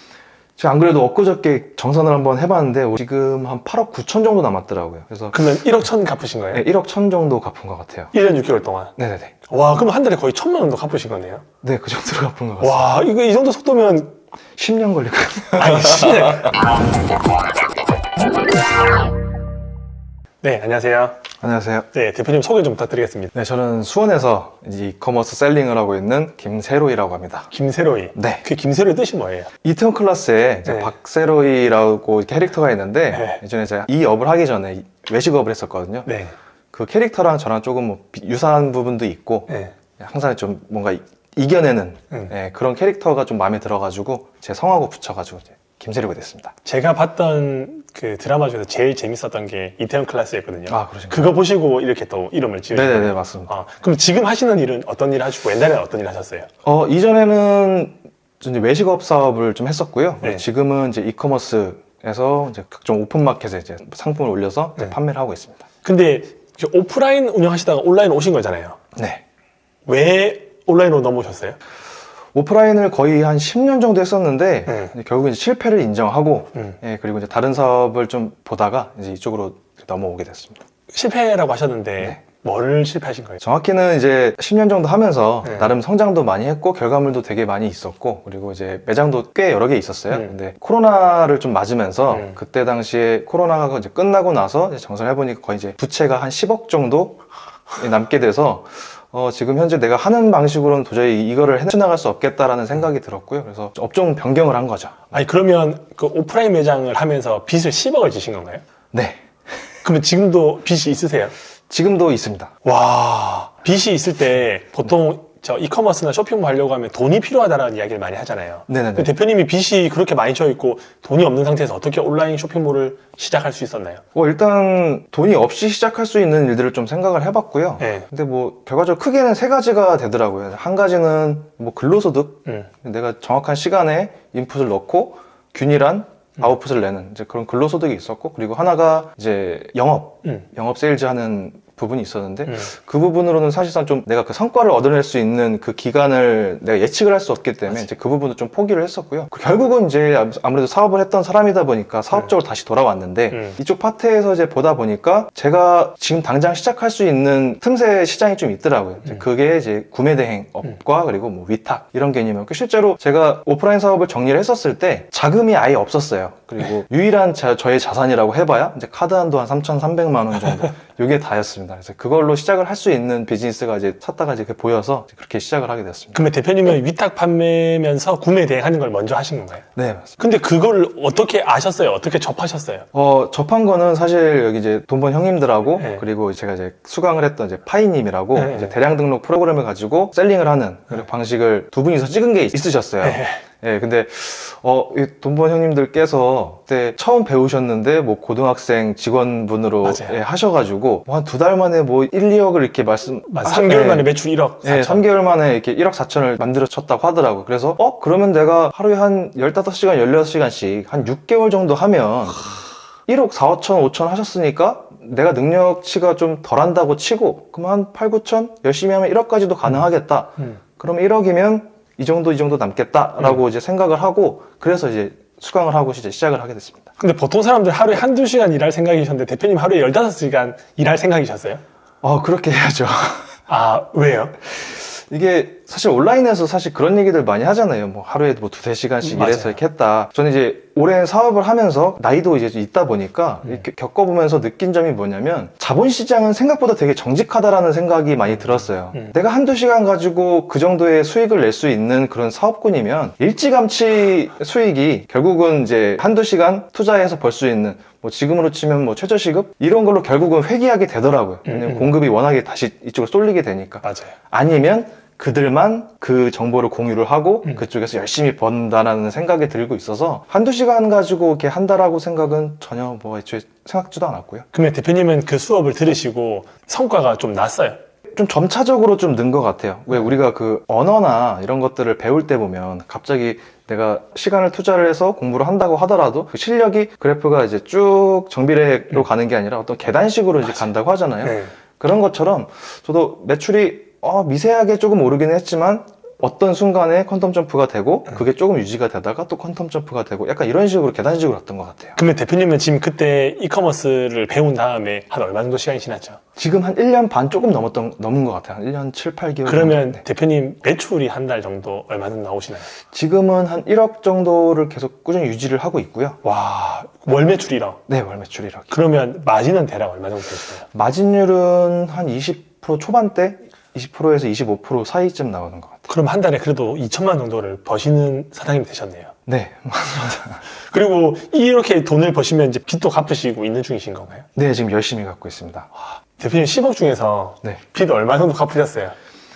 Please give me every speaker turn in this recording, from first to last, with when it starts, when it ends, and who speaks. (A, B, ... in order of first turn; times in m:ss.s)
0:00.6-0:05.5 A
0:05.3-0:06.6 B
0:06.5-0:08.1 A
0:08.1-0:09.0 B
0:09.0-0:09.4 A
0:09.5-0:11.5 B
0:11.6-0:12.9 A
0:12.6-0:14.2 B
0:14.6-0:16.5 A
0:15.6-0:16.6 B
0:20.4-0:21.2 B
0:21.4-0:21.9 A
0:21.9-0:23.3 B
0:23.3-0:27.5 A
0:27.5-0:29.5 B
0:28.2-0:28.4 A
0:29.6-0:36.1 A
0:30.7-0:30.9 B
0:33.1-0:33.4 B
0:36.1-0:36.3 B
0:36.7-0:46.5 A
0:39.5-0:39.7 B
0:46.6-0:56.5 B
0:50.7-0:51.2 A
0:52.7-0:53.5 A
0:56.6-1:05.7 A
1:05.8-1:08.8 B
1:09.0-1:09.2 A
1:09.9-1:11.6 B
1:12.3-1:20.6 A
1:14.7-1:14.9 B
1:20.9-1:23.4 B
1:23.4-1:45.1 A
1:25.4-1:25.7 B
1:45.1-1:48.6 B
1:48.9-1:49.2 A
1:49.8-1:51.3 B
1:51.7-1:52.5 A
1:52.6-2:04.0 B
1:58.7-1:59.1 A
2:04.2-2:56.2 A
2:07.8-2:08.1 B
2:33.3-2:33.6 B
2:56.1-2:59.6 B
2:59.8-3:00.2 A
3:00.2-3:02.9 B
3:02.9-3:46.9 A
3:05.8-3:06.0 B
3:08.4-3:08.8 B
3:13.0-3:13.4 B
3:19.8-3:20.2 B
3:23.3-3:25.0 B
3:47.0-3:51.6 B
3:52.0-3:53.4 A
3:53.5-3:54.4 B
3:54.5-4:34.5 A
3:59.0-3:59.6 B
4:21.5-4:21.9 B
4:23.8-4:24.2 B
4:34.5-4:37.8 B
4:38.2-5:02.0 A
4:51.2-4:51.5 B
5:02.0-5:06.2 B
5:06.4-5:10.0 A
5:09.5-5:12.7 B
5:12.9-5:16.2 A
5:16.2-5:17.8 B
5:17.9-5:18.7 A
5:18.7-5:20.7 B
5:20.7-5:25.9 A
5:25.9-5:29.1 B
5:29.3-5:30.4 A
5:30.6-5:34.3 B
5:34.4-5:35.7 A
5:36.1-5:39.0 B